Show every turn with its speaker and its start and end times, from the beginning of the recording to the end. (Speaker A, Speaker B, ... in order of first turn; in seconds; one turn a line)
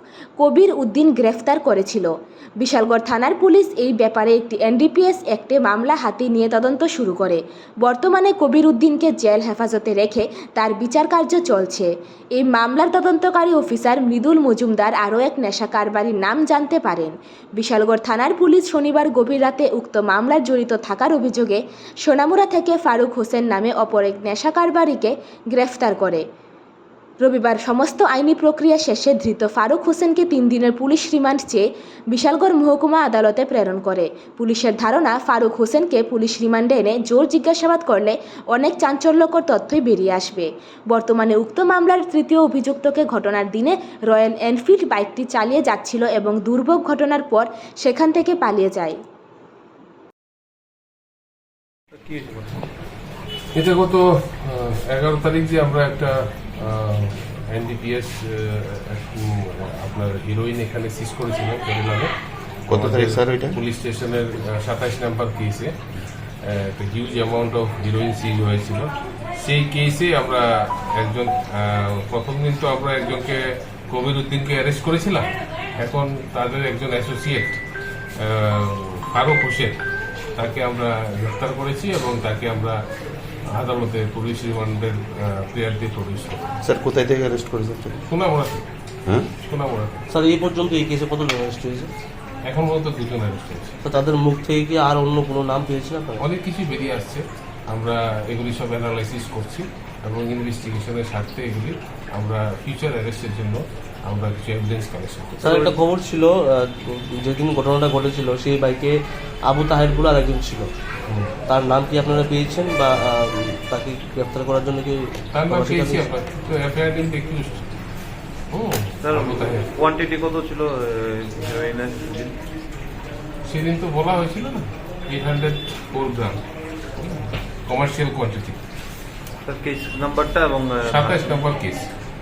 Speaker A: 0.4-26.2
Speaker A: 27.2-49.0
Speaker B: 52.0-52.5
Speaker C: 53.5-62.1
Speaker D: 62.7-63.6
Speaker C: 62.7-65.7
Speaker C: 66.4-77.6
Speaker C: 78.2-79.8
Speaker C: 80.4-82.8
Speaker C: 83.5-86.5
Speaker D: 86.6-88.0
Speaker C: 88.1-88.7
Speaker C: 89.4-90.0
Speaker E: 90.1-91.9
Speaker C: 92.5-93.8
Speaker E: 93.8-96.2
Speaker C: 96.2-105.6
Speaker E: 105.4-109.0
Speaker B: 105.4-105.8
Speaker E: 109.5-110.7
Speaker E: 111.5-116.1
Speaker C: 115.3-117.7
Speaker C: 118.5-119.7
Speaker B: 119.0-122.4
Speaker C: 123.5-126.4
Speaker C: 127.0-128.6
Speaker B: 129.4-131.4
Speaker C: 130.9-131.9